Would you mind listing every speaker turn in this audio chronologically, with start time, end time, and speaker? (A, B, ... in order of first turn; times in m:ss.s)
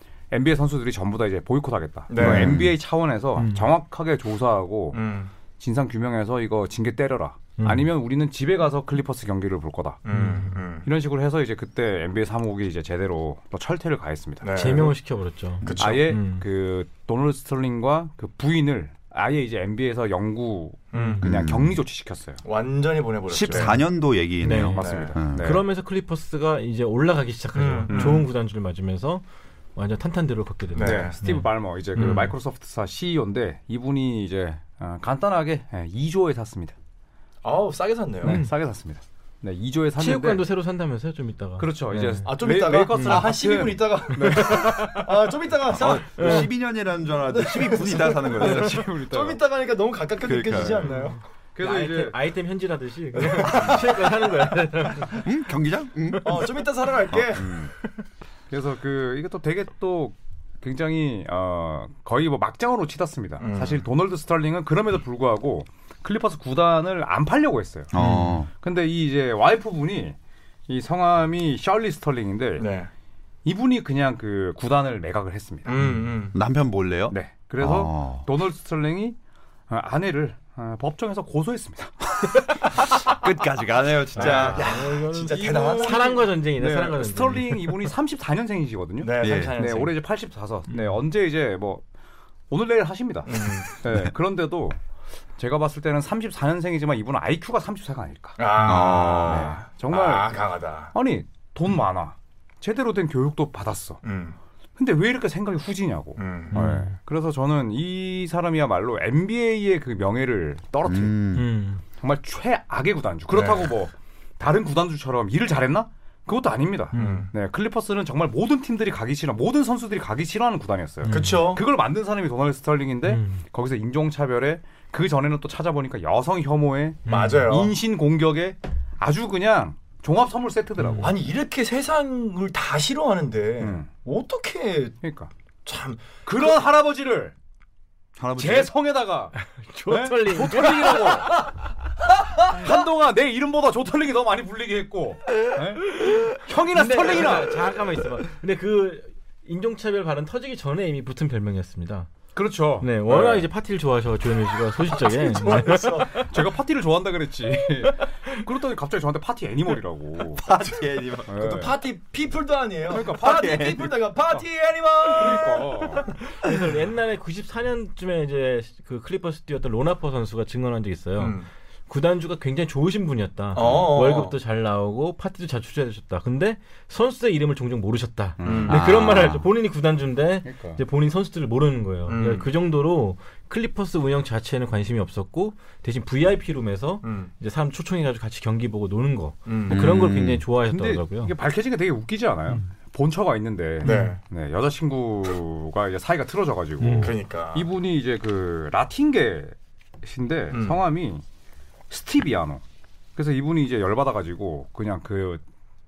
0:00.3-0:05.0 A
0:02.1-0:02.6 B
0:02.2-0:02.7 C
0:03.4-0:03.7 D
0:04.9-0:05.3 B
0:05.6-0:10.0 A
0:07.6-0:07.9 D
0:10.0-0:10.9 B
0:10.1-0:10.6 D
0:10.8-0:14.8 A
0:14.4-0:14.9 B
0:14.5-0:16.4 D
0:15.6-0:16.2 B
0:15.8-0:22.4 A
0:20.9-0:21.2 B
0:20.9-0:21.2 D
0:21.2-0:21.8 C
0:22.4-0:23.8 B
0:23.3-0:25.5 C
0:24.4-0:29.2 D
0:24.5-0:25.6 A
0:24.8-0:25.2 B
0:27.5-0:28.3 B
0:27.9-0:28.2 A
0:29.8-0:32.3 D
0:30.7-0:31.2 B
0:30.8-0:36.7 A
0:37.4-0:38.4 B
0:38.2-0:40.4 A
0:38.2-0:38.5 D
0:40.0-0:42.3 D
0:41.6-0:44.9 A
0:42.2-0:46.5 B
0:42.9-0:43.3 D
0:44.1-0:45.1 D
0:45.7-0:48.9 C
0:46.2-0:46.5 D
0:47.3-0:51.2 B
0:48.3-0:49.4 A
0:50.2-0:50.9 C
0:50.8-0:55.2 D
0:51.5-0:52.2 A
0:53.1-0:54.1 B
0:53.4-0:53.8 A
0:55.1-0:56.4 C
0:56.2-0:57.6 B
0:57.1-0:57.6 C
0:58.5-1:10.2 A
1:03.4-1:03.8 B
1:07.9-1:08.5 C
1:08.0-1:08.4 D
1:10.7-1:12.7 A
1:12.6-1:12.9 B
1:13.4-1:15.7 A
1:15.6-1:16.4 B
1:16.3-1:18.2 C
1:17.1-1:19.2 A
1:19.7-1:22.7 A
1:22.8-1:24.7 C
1:24.2-1:24.7 A
1:24.2-1:26.2 B
1:24.2-1:27.9 D
1:25.2-1:31.8 A
1:29.0-1:29.9 B
1:29.2-1:29.6 C
1:30.7-1:31.0 D
1:32.5-1:34.8 A
1:33.2-1:33.7 B
1:35.4-1:44.0 A
1:38.4-1:40.9 B
1:38.6-1:39.6 C
1:44.0-1:44.4 B
1:44.8-1:51.2 A
1:46.2-1:46.6 B
1:46.5-1:46.9 D
1:50.8-1:51.5 C
1:51.3-1:51.8 D
1:52.0-2:11.2 A
1:53.3-1:53.7 B
1:56.9-1:57.3 D
1:56.9-1:57.3 B
2:01.0-2:01.5 D
2:01.1-2:01.6 B
2:03.0-2:03.4 D
2:07.0-2:07.5 D
2:07.1-2:07.7 B
2:10.8-2:11.1 D
2:11.0-2:15.0 B
2:13.6-2:13.9 A
2:15.0-2:15.3 A
2:15.6-2:16.5 B
2:16.2-2:17.3 A
2:18.2-2:18.7 C
2:18.4-2:19.3 A
2:19.4-2:21.3 D
2:19.9-2:21.5 A
2:22.4-2:27.7 A
2:25.9-2:32.1 D
2:32.3-2:33.5 A
2:32.8-2:36.3 D
2:34.9-2:36.3 B
2:36.2-2:40.4 A
2:40.3-2:41.5 C
2:41.3-2:41.7 A
2:41.4-2:46.0 B
2:42.8-2:44.4 A
2:43.2-2:44.0 C
2:45.0-2:46.1 A
2:46.2-3:11.3 D
2:51.2-2:51.5 B
2:53.5-2:54.4 B
2:53.6-2:53.9 A
2:58.4-2:58.8 A
2:58.4-2:58.8 B
2:58.6-2:59.5 C
3:00.4-3:00.8 A
3:02.1-3:02.5 B
3:07.0-3:07.3 B
3:09.4-3:09.8 B
3:09.7-3:10.4 C
3:10.7-3:21.2 A
3:13.8-3:14.1 D
3:13.8-3:14.2 B
3:16.8-3:17.1 D
3:17.0-3:17.7 B
3:20.5-3:20.8 B
3:21.9-3:22.6 A
3:23.2-3:25.4 A